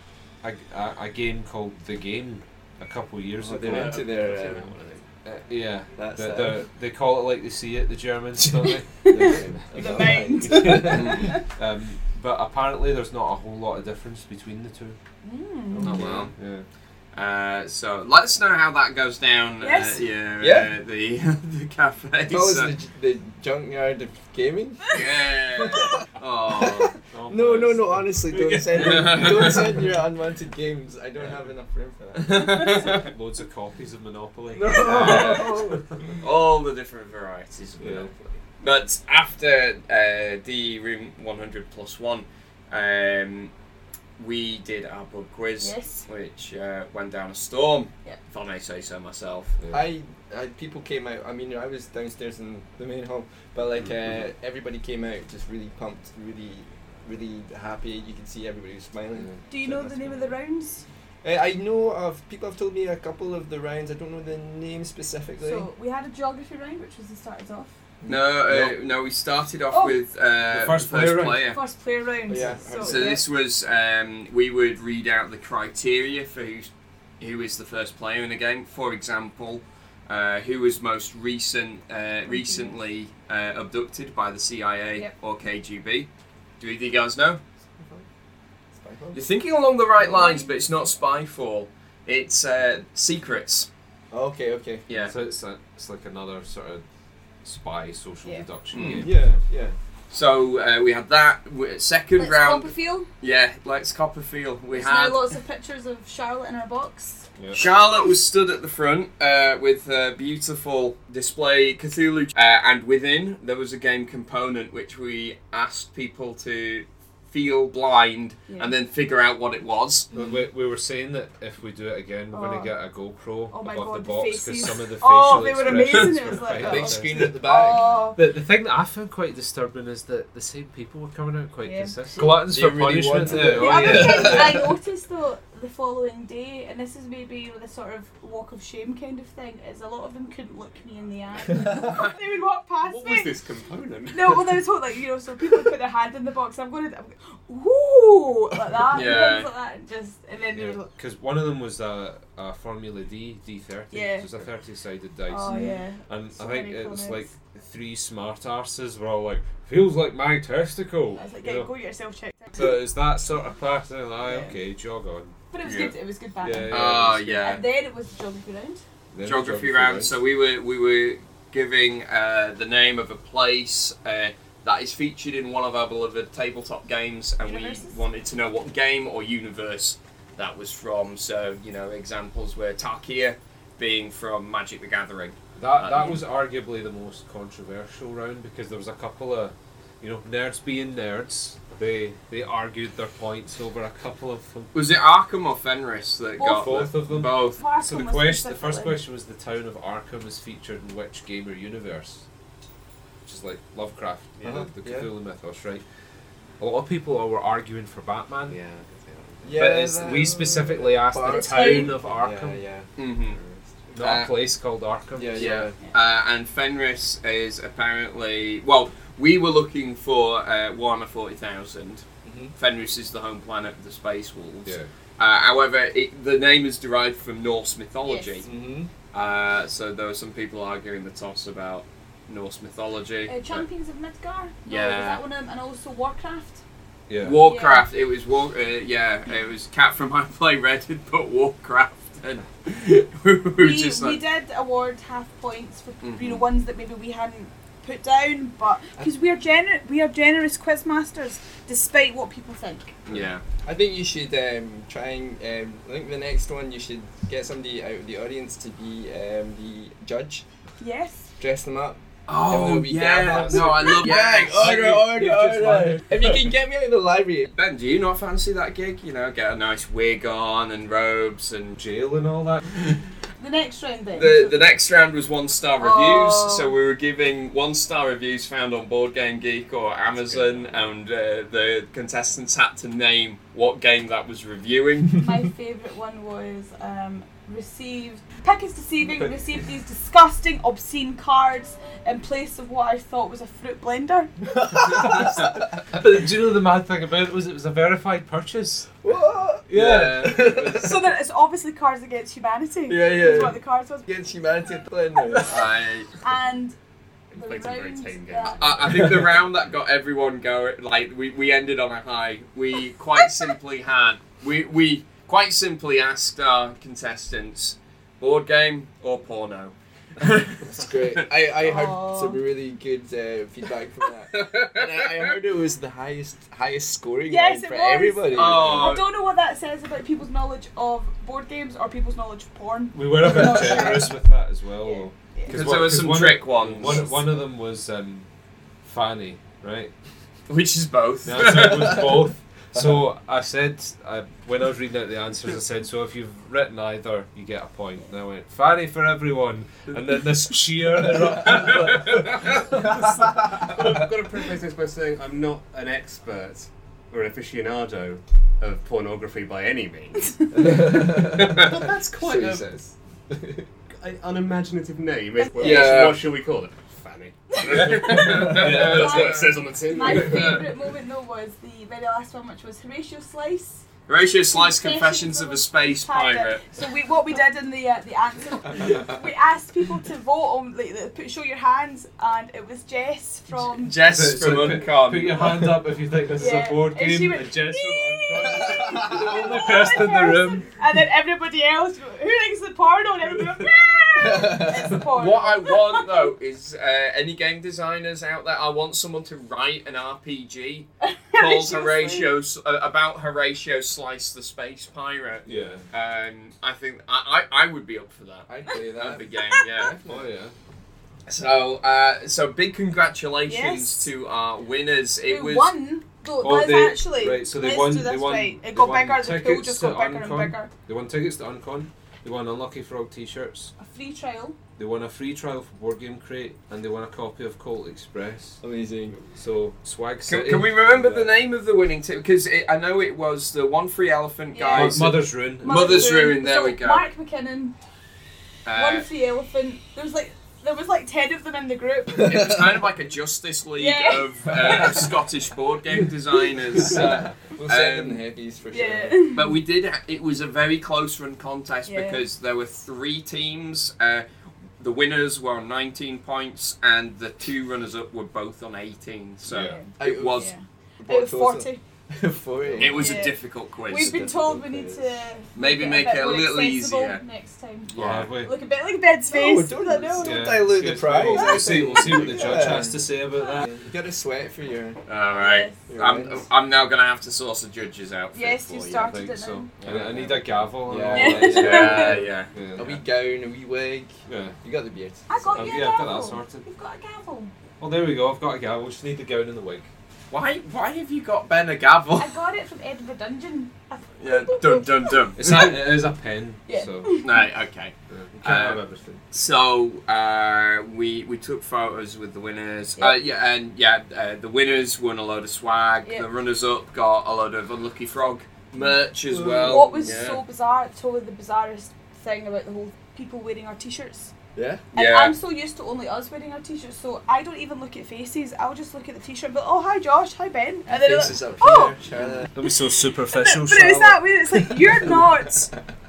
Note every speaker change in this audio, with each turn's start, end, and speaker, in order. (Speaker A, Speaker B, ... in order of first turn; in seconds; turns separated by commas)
Speaker A: 0.4-4.1, Speaker B: 3.4-4.7, Speaker C: 3.6-5.0, Speaker A: 5.2-9.4, Speaker B: 6.0-6.7, Speaker D: 9.0-11.4, Speaker B: 9.0-11.2, Speaker C: 9.3-9.9, Speaker A: 10.4-15.0, Speaker E: 10.8-11.3, Speaker D: 15.2-15.9, Speaker A: 15.8-16.7, Speaker E: 15.8-16.3, Speaker E: 17.1-22.7, Speaker D: 19.6-20.0, Speaker B: 20.4-20.7, Speaker B: 22.3-25.9, Speaker E: 24.9-26.9, Speaker B: 26.5-32.9, Speaker A: 27.1-29.6, Speaker E: 28.7-29.5, Speaker E: 32.1-33.1, Speaker A: 32.9-36.2, Speaker B: 34.5-36.2, Speaker E: 34.8-35.5, Speaker E: 36.2-37.9, Speaker B: 37.8-38.4, Speaker A: 37.8-38.1, Speaker E: 38.6-43.5, Speaker E: 44.2-49.5, Speaker D: 45.6-46.0, Speaker A: 49.6-49.8, Speaker B: 49.7-60.3, Speaker D: 59.5-60.8, Speaker B: 61.2-65.7, Speaker D: 65.4-67.7, Speaker B: 68.0-68.3, Speaker E: 68.1-71.6, Speaker A: 68.4-68.8, Speaker D: 69.7-70.0, Speaker A: 70.5-71.5, Speaker D: 71.4-73.2, Speaker B: 72.3-73.2, Speaker E: 72.8-86.1, Speaker D: 82.3-82.8, Speaker E: 86.6-87.4, Speaker B: 88.7-89.2, Speaker E: 89.1-93.7, Speaker D: 90.0-90.5, Speaker B: 94.1-94.8, Speaker E: 94.9-95.1, Speaker A: 95.0-96.8, Speaker A: 97.4-99.4, Speaker E: 98.7-99.1, Speaker B: 98.8-99.8, Speaker E: 100.1-105.3, Speaker D: 102.2-103.1, Speaker D: 104.7-107.3, Speaker A: 107.4-107.7, Speaker E: 107.5-120.1, Speaker D: 118.5-118.7, Speaker B: 120.1-120.4, Speaker A: 120.1-127.5, Speaker D: 122.3-122.7, Speaker D: 123.5-128.2, Speaker B: 126.6-127.9, Speaker A: 128.1-134.6, Speaker D: 131.6-131.9, Speaker B: 132.2-134.7, Speaker D: 133.4-143.3, Speaker C: 142.8-144.7, Speaker D: 144.1-150.9, Speaker E: 148.9-149.5, Speaker A: 150.5-161.7, Speaker D: 153.9-154.3, Speaker D: 155.3-157.3, Speaker D: 161.2-162.8, Speaker A: 162.5-165.4, Speaker D: 164.2-164.6, Speaker D: 165.5-168.8, Speaker E: 165.6-165.9, Speaker A: 166.4-167.6, Speaker E: 166.7-167.6, Speaker A: 169.1-170.1, Speaker E: 169.2-186.2, Speaker D: 177.4-178.0, Speaker A: 185.6-194.7, Speaker E: 194.7-197.6, Speaker D: 196.4-196.8, Speaker A: 196.4-202.2, Speaker D: 197.4-199.0, Speaker A: 203.2-205.8, Speaker C: 204.4-204.6, Speaker B: 204.4-205.1, Speaker A: 206.6-208.6, Speaker C: 208.5-209.6, Speaker B: 209.4-212.9, Speaker A: 209.5-212.6, Speaker D: 211.2-211.9, Speaker E: 213.0-213.4, Speaker C: 213.3-213.7, Speaker A: 213.9-215.6, Speaker E: 214.0-214.3, Speaker B: 215.1-215.8, Speaker E: 215.3-228.5, Speaker B: 222.2-222.5, Speaker D: 228.0-228.4, Speaker B: 228.4-228.9, Speaker E: 229.1-233.6, Speaker D: 233.2-236.6, Speaker E: 234.7-235.2, Speaker A: 237.1-237.4, Speaker E: 237.2-244.2, Speaker D: 237.4-237.9, Speaker D: 243.6-252.9, Speaker E: 246.0-246.4, Speaker E: 253.1-253.4, Speaker B: 253.6-260.4, Speaker D: 260.8-261.3, Speaker B: 261.4-267.5, Speaker E: 262.3-265.2, Speaker A: 263.3-266.4, Speaker E: 267.5-271.8, Speaker A: 271.7-272.7, Speaker D: 273.4-274.6, Speaker E: 274.1-285.2, Speaker D: 275.8-276.7, Speaker C: 280.1-280.9, Speaker D: 285.2-294.3, Speaker B: 294.6-295.4, Speaker A: 294.9-299.0, Speaker B: 299.0-300.9, Speaker A: 299.7-300.9, Speaker E: 299.7-300.7, Speaker D: 300.6-304.1, Speaker B: 302.9-305.7, Speaker E: 305.4-306.1, Speaker D: 306.2-306.8, Speaker D: 307.3-308.9, Speaker C: 307.3-309.4, Speaker E: 308.5-321.2, Speaker B: 320.6-329.0, Speaker D: 321.6-322.4, Speaker E: 324.3-325.3, Speaker D: 327.3-334.2, Speaker E: 328.3-329.1, Speaker A: 332.9-338.3, Speaker D: 334.8-335.7, Speaker E: 335.5-337.1, Speaker A: 338.8-339.9, Speaker E: 340.5-342.3, Speaker A: 341.2-352.9, Speaker C: 352.8-362.7, Speaker B: 360.6-363.6, Speaker C: 364.0-370.7, Speaker D: 365.4-365.8, Speaker E: 365.6-366.2, Speaker B: 365.6-366.1, Speaker D: 367.5-373.8, Speaker E: 368.1-369.5, Speaker A: 368.3-369.2, Speaker E: 370.1-370.6, Speaker E: 374.1-376.7, Speaker D: 374.5-384.0, Speaker E: 383.7-385.8, Speaker A: 384.0-390.8, Speaker D: 386.4-396.1, Speaker B: 388.9-389.1, Speaker B: 394.2-394.9, Speaker E: 395.1-410.0, Speaker D: 401.0-402.3, Speaker A: 405.4-405.8, Speaker B: 408.5-410.3, Speaker A: 410.1-410.5, Speaker E: 411.3-415.7, Speaker D: 413.4-414.1, Speaker D: 415.3-420.7, Speaker A: 416.4-423.7, Speaker D: 423.8-424.6, Speaker A: 424.8-428.6, Speaker B: 428.6-429.2, Speaker A: 429.3-431.4, Speaker E: 430.2-437.1, Speaker D: 434.5-437.8, Speaker A: 434.7-436.3, Speaker E: 438.6-439.1, Speaker D: 438.7-442.5, Speaker E: 442.2-448.2, Speaker D: 443.8-445.0, Speaker B: 446.7-449.3, Speaker D: 448.7-449.5, Speaker E: 449.3-454.2, Speaker D: 451.9-452.2, Speaker E: 454.8-460.5, Speaker A: 459.4-459.8, Speaker D: 459.5-461.8, Speaker B: 460.0-460.5, Speaker B: 461.0-463.2, Speaker E: 462.8-464.2, Speaker D: 462.9-470.5, Speaker B: 463.9-465.2, Speaker E: 465.5-467.2, Speaker E: 467.9-468.3, Speaker A: 467.9-468.5, Speaker B: 469.3-475.0, Speaker A: 470.2-473.8, Speaker E: 471.4-472.2, Speaker E: 475.1-479.1, Speaker D: 475.3-475.8, Speaker B: 475.9-476.4, Speaker D: 478.3-479.7, Speaker A: 479.0-483.0, Speaker E: 479.8-480.3, Speaker B: 480.8-482.2, Speaker D: 481.1-482.2, Speaker E: 481.4-482.5, Speaker B: 482.7-485.9, Speaker A: 484.3-484.6, Speaker D: 485.3-487.5, Speaker A: 485.5-486.6, Speaker A: 487.8-489.9, Speaker E: 490.3-492.3, Speaker D: 492.1-495.4, Speaker E: 494.2-495.9, Speaker A: 495.4-497.3, Speaker D: 496.7-497.4, Speaker E: 497.2-510.4, Speaker A: 498.1-499.2, Speaker B: 508.8-510.2, Speaker D: 509.6-514.3, Speaker B: 514.5-514.9, Speaker E: 514.9-515.3, Speaker D: 514.9-522.0, Speaker B: 520.9-522.5, Speaker A: 522.5-524.3, Speaker D: 523.3-525.7